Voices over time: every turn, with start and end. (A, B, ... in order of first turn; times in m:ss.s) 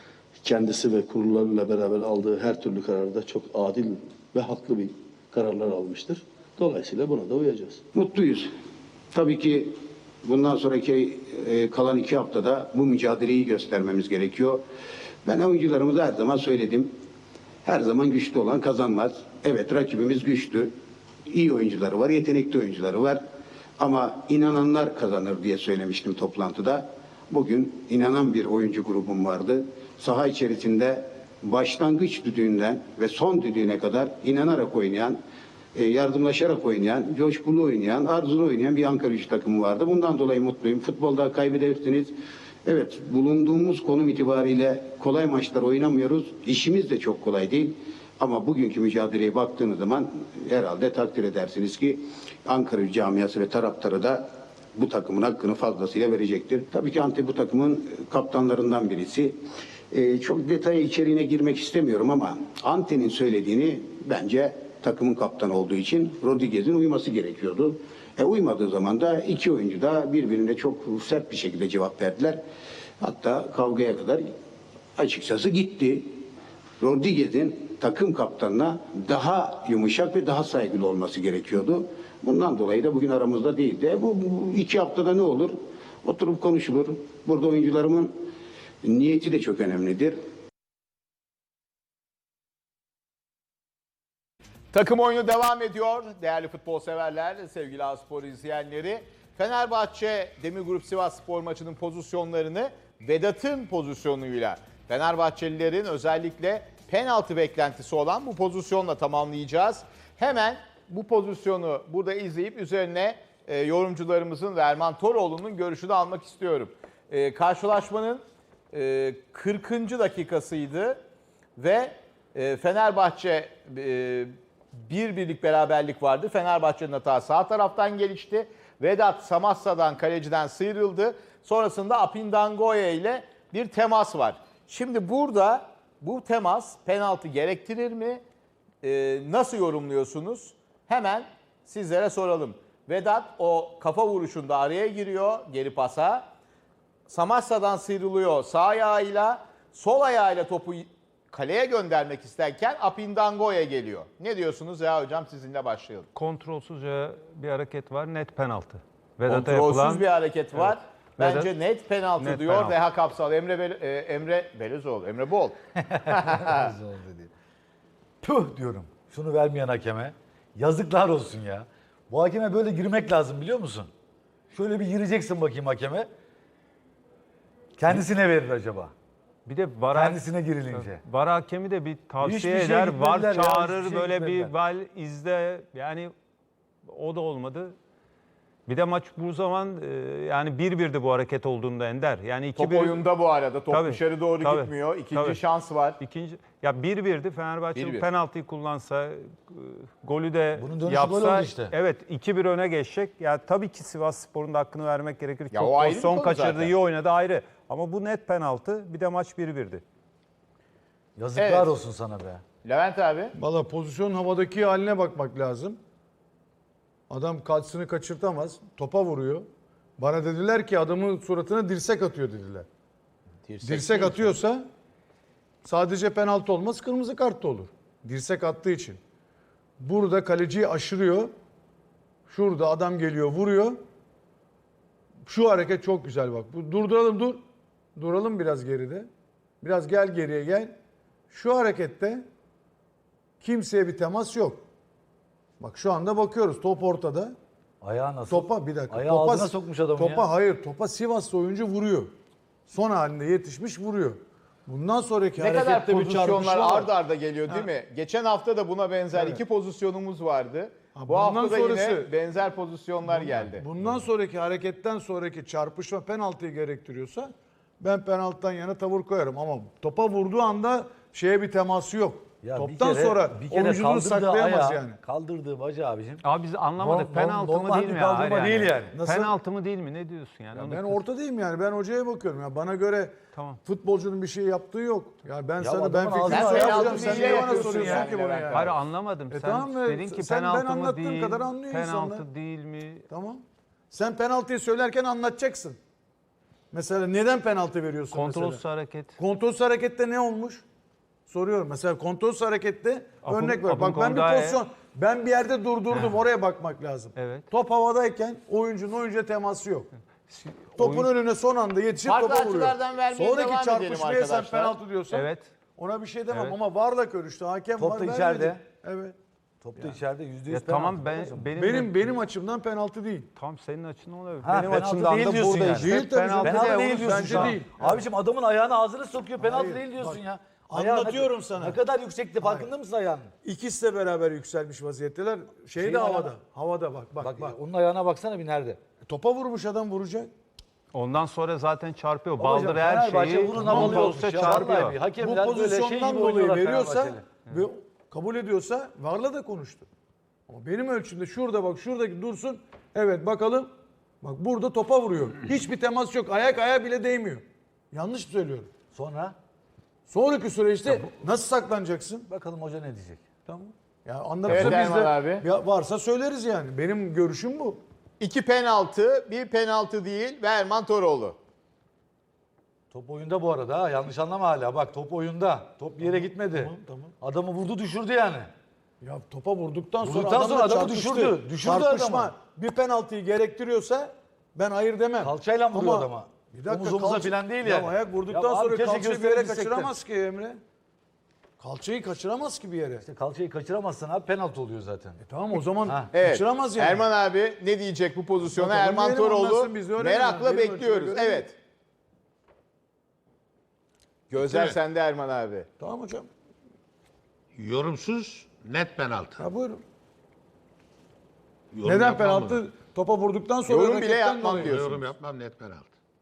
0:00.4-0:07.8 A
0:07.9-0:08.5 B
0:09.1-0:14.6 B
0:15.2-0:16.9 B
0:17.6-0:20.7 B
0:21.2-0:23.2 B
0:23.8-0:35.2 B
0:35.7-0:42.1 B
0:42.6-0:59.4 B
0:59.9-1:12.4 B
1:13.0-1:14.3 B
1:15.0-1:16.2 B
1:16.8-1:28.1 B
1:28.8-1:30.2 B
1:34.7-2:01.0 C
2:01.6-2:04.3 C
2:04.8-2:18.2 C
2:18.8-2:26.2 C
2:27.1-2:36.1 C
2:36.1-2:41.5 D
2:39.3-2:46.7 C
2:42.2-2:42.8 D
2:46.3-2:47.3 E
2:48.2-2:53.9 E
2:54.5-2:56.1 E
2:57.8-2:58.9 E
2:59.4-3:06.1 D
2:59.9-3:01.0 E
3:02.2-3:04.5 E
3:06.9-3:07.7 D
3:08.7-3:13.0 D
3:12.6-3:16.0 C
3:13.7-3:15.4 D
3:16.0-3:29.8 D
3:17.7-3:18.0 C
3:20.6-3:21.7 E
3:25.5-3:26.7 C
3:31.2-3:32.4 E
3:31.4-3:31.7 C
3:32.6-3:33.3 C
3:33.4-3:35.8 F
3:37.1-3:39.4 F
3:40.0-3:42.6 F
3:43.6-3:44.6 F
3:45.6-3:49.0 F
3:49.8-3:51.3 F
3:52.3-3:53.8 F
3:55.2-3:57.4 F
3:58.0-3:59.1 F
3:59.6-4:00.7 F
4:01.3-4:02.2 F
4:03.4-4:04.6 F
4:05.6-4:07.3 F
4:07.8-4:10.3 E
4:08.3-4:12.1 F
4:12.7-4:16.9 F
4:15.4-4:23.6 C
4:19.1-4:19.4 F
4:20.9-4:22.1 F
4:23.0-4:35.0 F
4:32.4-4:36.2 E
4:36.2-4:41.0 D
4:36.8-4:38.9 E
4:38.9-4:39.3 F
4:40.5-4:52.3 F
4:43.3-4:43.6 D
4:45.6-4:47.7 E
4:46.3-4:48.7 C
4:48.5-4:53.0 D
4:53.1-4:55.8 F
4:56.7-4:58.6 F
4:58.1-4:59.2 D
4:59.2-5:00.6 F
5:01.3-5:09.9 F
5:03.2-5:04.6 D
5:05.9-5:06.2 D
5:07.1-5:07.5 D
5:10.3-5:11.1 D
5:10.8-5:19.1 F
5:12.0-5:14.8 C
5:15.1-5:15.5 D
5:16.3-5:16.6 D
5:17.8-5:18.6 E
5:19.6-5:21.5 E
5:20.5-5:22.1 D
5:21.5-5:23.3 F
5:23.4-5:27.5 D
5:24.4-5:33.3 E
5:25.7-5:28.0 F
5:29.4-5:31.8 F
5:32.4-5:32.7 F
5:33.4-5:37.6 F
5:35.8-5:36.3 E
5:37.2-5:38.8 E
5:39.0-5:40.3 F
5:40.9-5:45.0 D
5:42.4-5:47.2 E
5:43.6-5:49.9 F
5:50.5-5:53.7 F
5:54.2-5:58.7 F
5:58.9-5:59.4 E
6:00.1-6:02.2 F
6:02.2-6:03.2 E
6:03.5-6:07.8 F
6:04.5-6:05.4 C
6:08.2-6:11.4 C
6:12.9-6:18.5 E
6:16.0-6:17.1 F
6:19.0-6:30.6 F
6:20.0-6:22.3 E
6:25.2-6:29.9 E
6:31.6-6:33.0 F
6:33.0-6:35.2 E
6:35.2-6:37.0 F
6:35.8-6:36.1 E
6:36.1-6:41.5 C
6:38.4-6:41.5 F
6:44.3-6:45.7 C
6:44.4-6:44.8 G
6:45.8-6:46.3 F
6:47.5-6:49.4 G
6:49.4-6:49.8 F
6:51.7-6:52.6 G
6:51.8-6:54.8 F
6:53.7-6:55.1 C
6:54.6-6:55.9 G